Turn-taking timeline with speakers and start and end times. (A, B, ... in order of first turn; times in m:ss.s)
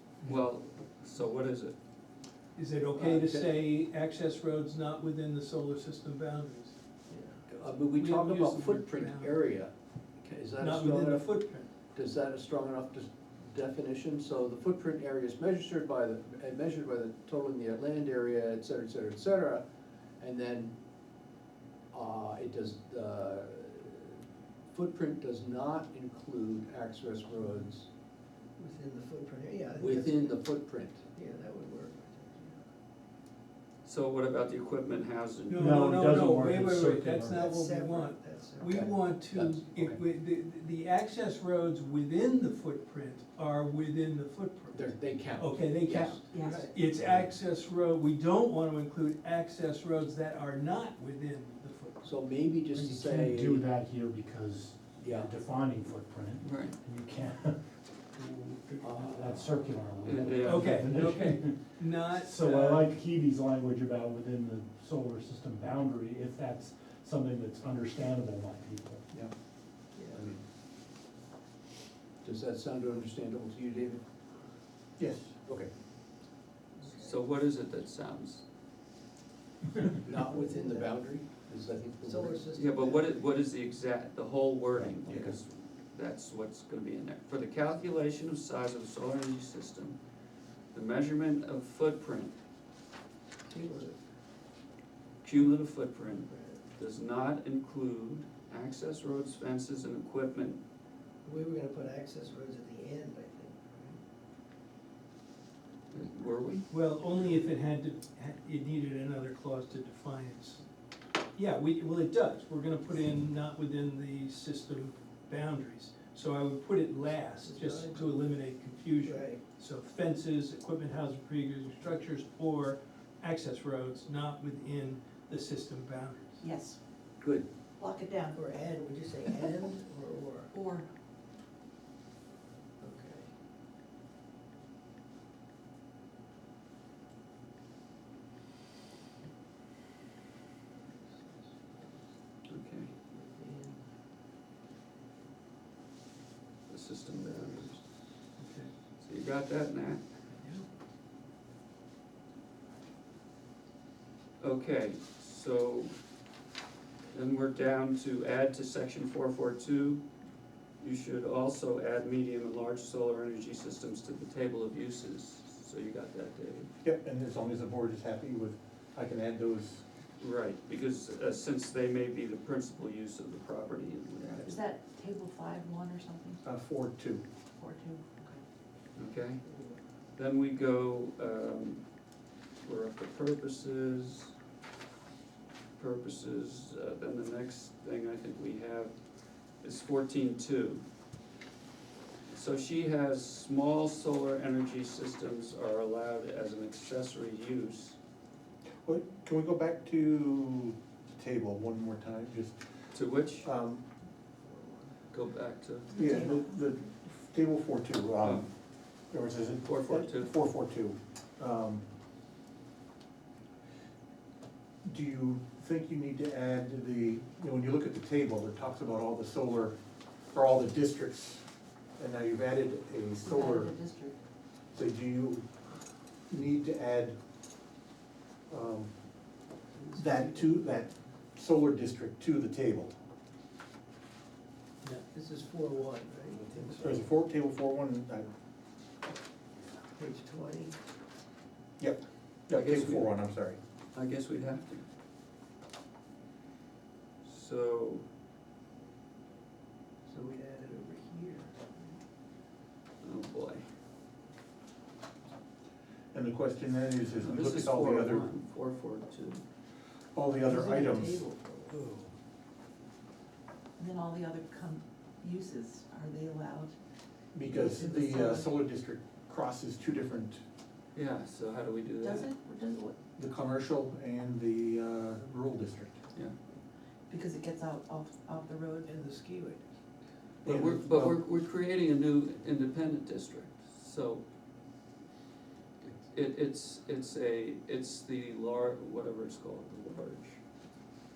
0:00.2-0:01.7 A
0:02.5-0:06.8 B
0:02.9-0:03.6 C
0:07.1-0:07.4 D
0:07.5-0:11.4 C
0:07.9-0:09.4 B
0:10.6-0:11.7 B
0:11.9-0:19.6 C
0:20.2-0:20.7 C
0:21.9-0:27.9 C
0:28.6-0:30.4 D
0:29.7-0:31.0 C
0:31.1-0:32.6 D
0:33.8-0:35.8 A
0:35.5-0:52.2 B
0:35.6-0:37.4 E
0:37.3-0:39.2 D
0:39.3-0:40.0 C
0:44.7-0:46.3 C
0:46.3-0:46.7 F
0:46.4-0:46.8 D
0:46.9-0:47.3 C
0:52.0-0:53.7 C
0:52.7-0:57.6 E
0:55.0-0:55.3 C
0:56.4-0:56.8 A
0:58.1-1:09.0 E
0:58.8-0:59.7 C
1:00.0-1:00.8 A
1:00.4-1:02.9 B
1:09.9-1:10.3 D
1:10.1-1:10.4 C
1:12.2-1:14.0 C
1:15.0-1:15.4 G
1:16.8-1:17.2 D
1:16.9-1:18.4 A
1:20.0-1:22.4 C
1:20.1-1:20.9 D
1:22.0-1:23.3 D
1:22.5-1:30.0 A
1:25.0-1:25.4 G
1:30.7-1:32.4 A
1:33.4-1:34.0 D
1:35.2-1:40.6 A
1:36.0-1:36.6 D
1:41.2-1:44.0 D
1:45.9-1:46.7 A
1:46.7-1:50.6 B
1:51.3-2:06.4 B
1:57.4-1:58.2 D
1:59.0-1:59.4 D
2:06.4-2:06.8 F
2:07.2-2:07.5 C
2:07.8-2:08.5 F
2:08.3-2:10.5 D
2:10.5-2:10.9 F
2:12.8-2:13.3 D
2:20.8-2:22.0 D
2:22.5-2:22.9 A
2:23.0-2:23.8 D
2:26.7-2:27.8 A
2:27.1-2:27.8 D
2:28.4-2:28.7 B
2:29.0-2:30.0 A
2:34.4-2:35.9 A
2:37.1-2:40.0 A
2:40.8-2:46.7 A
2:46.8-2:49.8 G
2:50.2-2:54.6 A
2:54.4-2:56.4 F
2:56.4-2:57.2 G
2:57.6-2:58.4 F
2:59.0-2:59.4 A
2:59.4-2:59.7 D
3:00.2-3:01.8 A
3:02.6-3:04.3 A
3:05.8-3:09.0 A
3:09.6-3:10.8 A
3:12.3-3:18.0 A
3:18.8-3:22.6 G
3:22.9-3:23.5 A
3:23.4-3:23.8 G
3:25.1-3:26.1 A
3:25.9-3:26.4 F
3:25.9-3:28.5 G
3:28.2-3:28.4 A
3:29.1-3:31.8 G
3:29.6-3:30.3 A
3:34.8-3:39.8 G
3:40.3-3:41.4 G
3:42.0-3:43.7 G
3:43.2-3:44.2 F
3:44.7-3:45.4 G
3:46.3-3:47.2 G
3:48.5-3:48.9 G
3:49.8-3:50.7 D
3:50.0-3:52.9 G
3:55.1-3:57.0 D
3:56.8-3:58.3 G
3:59.9-4:00.8 D
4:01.8-4:03.6 G
4:02.5-4:03.3 A
4:03.9-4:04.8 A
4:07.2-4:08.0 A
4:10.0-4:12.0 D
4:13.0-4:13.6 A
4:16.1-4:18.3 G
4:17.1-4:19.4 A
4:20.1-4:21.2 G
4:20.4-4:21.8 D
4:23.8-4:26.7 F
4:27.3-4:30.4 G
4:27.4-4:28.5 F
4:30.9-4:32.3 A
4:32.0-4:33.0 F
4:33.2-4:36.0 G
4:37.1-4:39.0 F
4:38.8-4:39.7 D
4:40.4-4:41.2 G
4:40.4-4:44.2 A
4:45.8-4:50.4 A